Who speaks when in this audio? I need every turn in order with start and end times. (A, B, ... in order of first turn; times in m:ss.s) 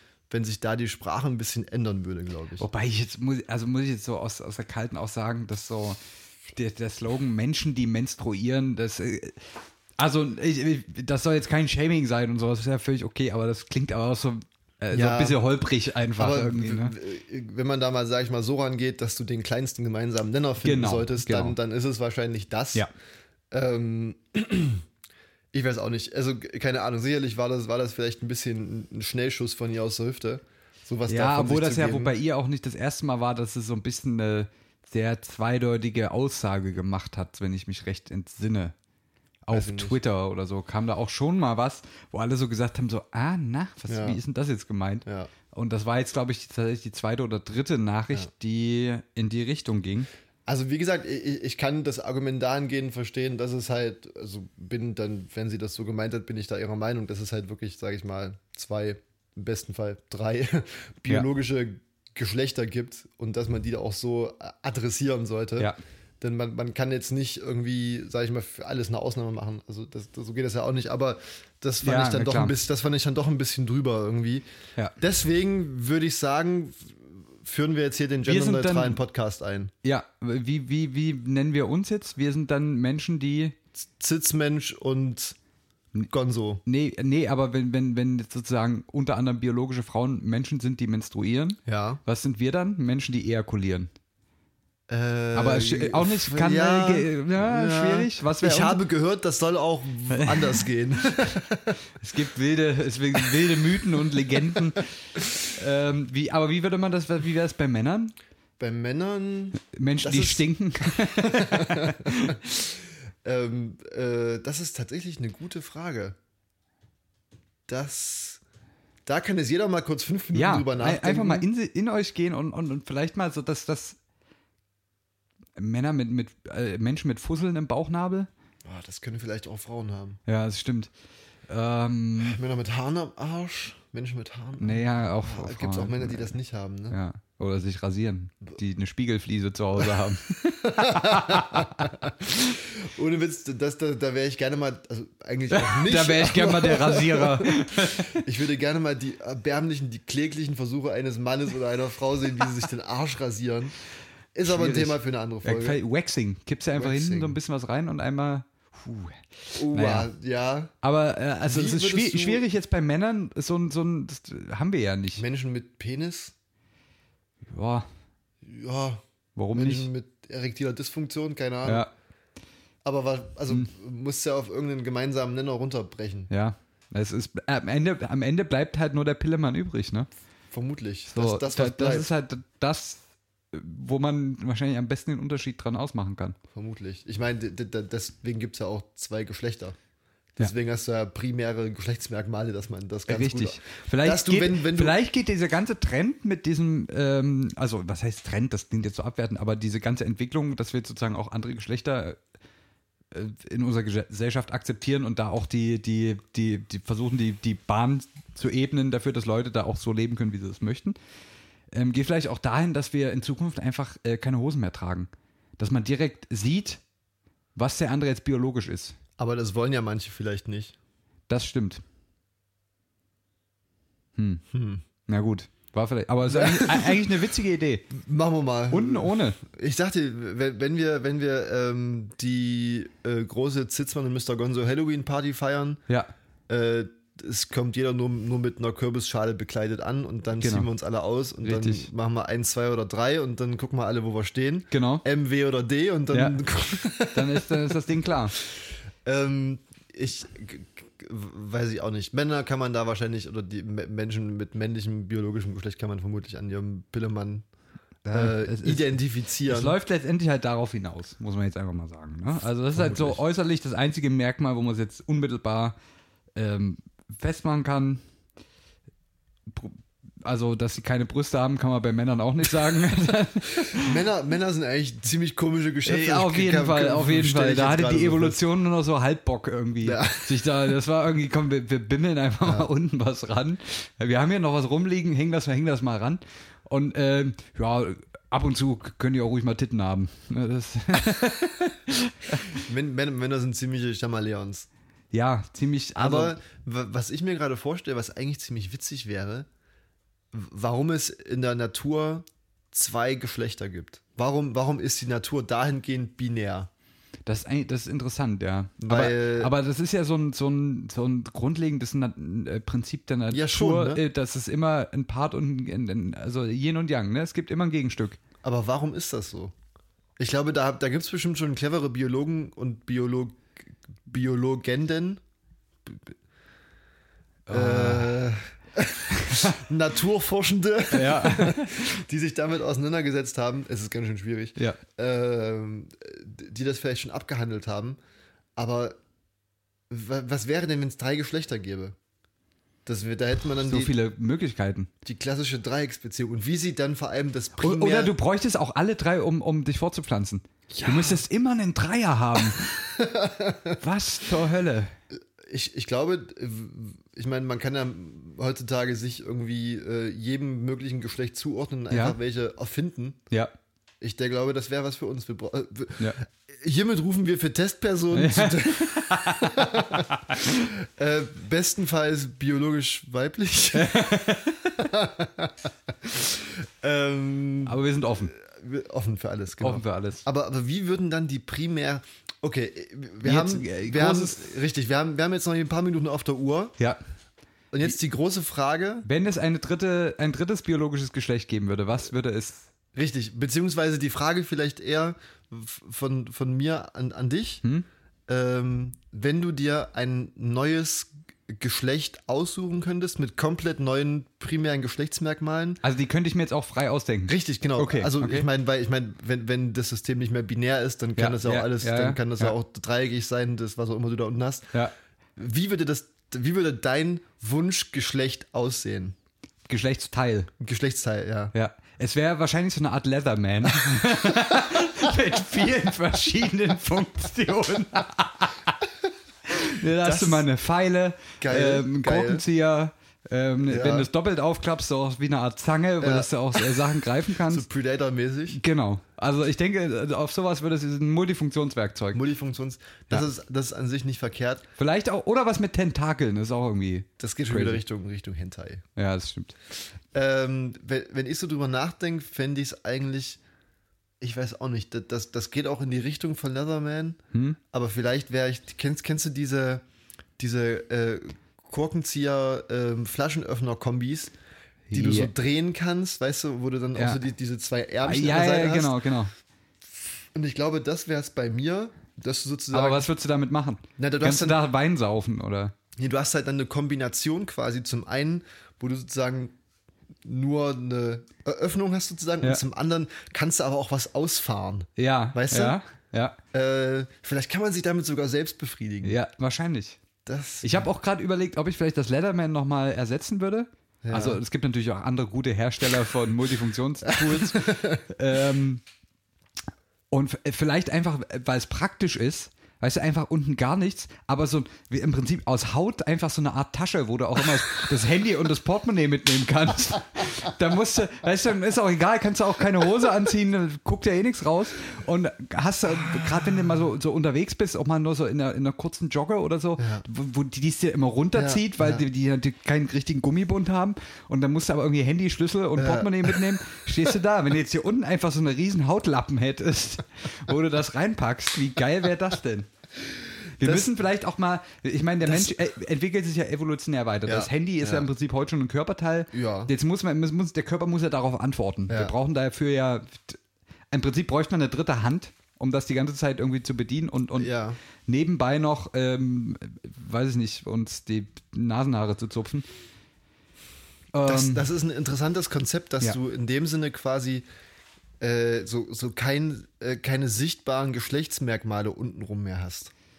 0:00.3-0:02.6 A
0:02.6-0:16.9 B
0:14.9-0:15.4 A
0:16.2-0:22.8 A
0:20.6-0:21.6 B
0:23.5-0:24.8 A
0:25.5-0:32.1 A
0:31.1-0:38.7 B
0:39.4-0:50.1 B
0:39.5-0:40.0 A
0:43.9-0:44.2 A
0:45.0-0:45.3 A
0:50.4-1:14.4 A
1:11.8-1:12.6 B
1:15.0-1:19.7 A
1:18.2-1:19.0 B
1:19.8-1:23.6 B
1:23.8-1:25.4 A
1:26.1-1:26.6 A
1:26.6-1:33.9 B
1:31.7-1:32.0 A
1:34.9-1:41.8 A
1:35.3-1:38.8 B
1:40.1-1:41.4 B
1:42.0-1:48.1 B
1:43.2-1:43.7 A
1:48.6-1:56.2 A
1:49.6-1:52.4 B
1:57.7-1:58.4 A
1:59.0-2:01.5 A
2:00.3-2:04.0 B
2:05.6-2:08.3 B
2:08.6-2:10.2 A
2:10.2-2:10.9 B
2:11.5-2:12.4 B
2:12.2-2:17.0 A
2:14.6-2:16.3 B
2:16.9-2:21.9 B
2:20.6-2:33.7 A
2:25.5-2:28.2 B
2:34.3-2:35.8 A
2:34.4-2:40.1 B
2:36.7-2:37.4 A
2:39.6-2:40.7 A
2:40.8-2:45.2 B
2:41.5-2:42.4 A
2:45.2-2:46.3 A
2:47.5-2:47.9 B
2:48.4-2:49.0 A
2:49.4-2:49.9 B
2:49.5-2:51.9 A
2:51.6-2:51.9 B
2:52.8-2:56.3 A
2:56.3-3:00.1 B
3:00.5-3:02.1 A
3:01.1-3:06.4 B
3:06.5-3:09.8 A
3:10.4-3:15.0 A
3:13.1-3:22.2 B
3:23.1-3:31.0 B
3:31.7-3:36.8 B
3:37.6-3:39.0 B
3:39.2-3:40.8 A
3:41.3-3:41.8 B
3:44.2-3:44.4 B
3:44.5-3:44.8 A
3:45.0-3:47.9 B
3:46.3-3:47.1 A
3:47.9-3:55.8 A
3:48.7-3:49.4 B
3:56.5-4:07.8 A
4:00.4-4:00.7 B
4:01.4-4:01.9 B
4:04.7-4:05.0 B
4:06.1-4:06.4 B
4:07.1-4:08.4 B
4:08.4-4:17.4 A
4:18.0-4:19.8 A
4:18.1-4:25.8 B
4:22.7-4:23.2 A
4:26.4-4:28.0 B
4:29.5-4:34.0 B
4:33.7-4:38.4 A
4:35.8-4:52.6 B
4:39.8-4:40.4 A
4:42.4-4:42.7 A
4:52.5-4:54.7 A
4:55.1-4:56.4 B
4:56.0-4:59.5 A
5:00.3-5:06.7 A
5:07.2-5:18.2 B
5:08.8-5:09.5 A
5:13.3-5:14.0 A
5:18.4-5:19.5 A
5:20.2-5:25.2 A
5:25.8-5:26.1 A
5:27.5-5:28.2 B
5:27.5-5:38.0 A
5:29.1-5:29.6 B
5:30.9-5:31.9 B
5:38.6-5:39.0 A
5:39.9-5:42.0 A
5:42.8-5:43.9 A
5:43.6-5:44.9 B
5:45.0-5:48.1 A
5:47.6-5:52.9 B
5:50.7-5:51.2 A
5:52.6-5:53.8 A
5:53.8-5:54.9 B
5:55.4-6:03.2 A
6:01.9-6:02.2 B
6:04.0-6:26.8 A
6:08.1-6:10.6 B
6:13.7-6:14.8 B
6:17.6-6:18.3 B
6:19.6-6:20.2 B
6:23.2-6:24.5 B
6:27.7-6:29.0 A
6:29.0-6:32.7 B
6:32.9-6:37.6 A
6:38.3-6:45.8 A
6:45.8-6:48.5 B
6:47.3-6:54.7 A
6:51.2-6:52.5 B
6:55.4-6:59.2 A
6:59.7-7:00.5 B
7:00.6-7:01.5 A
7:01.5-7:08.8 B
7:04.5-7:05.0 A
7:09.5-7:17.6 B
7:10.0-7:10.4 A
7:11.4-7:12.4 A
7:13.7-7:14.1 A
7:16.0-7:18.6 A
7:18.5-7:22.2 B
7:22.1-7:24.6 A
7:24.8-7:27.8 B
7:27.2-7:28.8 A
7:29.0-7:29.6 B
7:30.1-7:33.4 A
7:34.2-7:37.2 A
7:37.3-7:37.6 B
7:37.7-7:39.8 A
7:40.4-7:44.3 A
7:44.9-7:45.3 B
7:44.9-7:49.0 A
7:47.0-7:47.2 B
7:48.0-7:49.3 B
7:50.3-7:53.1 A
7:52.7-7:55.7 B
7:54.0-7:54.6 A
7:56.0-7:59.5 A
8:00.2-8:05.8 A
8:05.0-8:06.4 B
8:06.5-8:09.2 A
8:09.0-8:10.0 B
8:10.2-8:10.9 A
8:10.6-8:18.8 B
8:14.0-8:14.4 A
8:17.1-8:18.0 A
8:20.1-8:52.7 B
8:39.8-8:40.0 A
8:41.3-8:42.0 A
8:45.8-8:46.4 A
8:53.6-9:03.4 B
8:53.6-8:53.9 A
8:55.2-8:55.5 A
8:57.2-8:58.1 A
8:59.3-8:59.7 A
9:01.9-9:02.1 A
9:03.9-9:07.5 B
9:07.4-9:07.8 A
9:08.0-9:12.7 B
9:14.1-9:14.6 B
9:14.2-9:17.4 A
9:18.2-9:22.9 A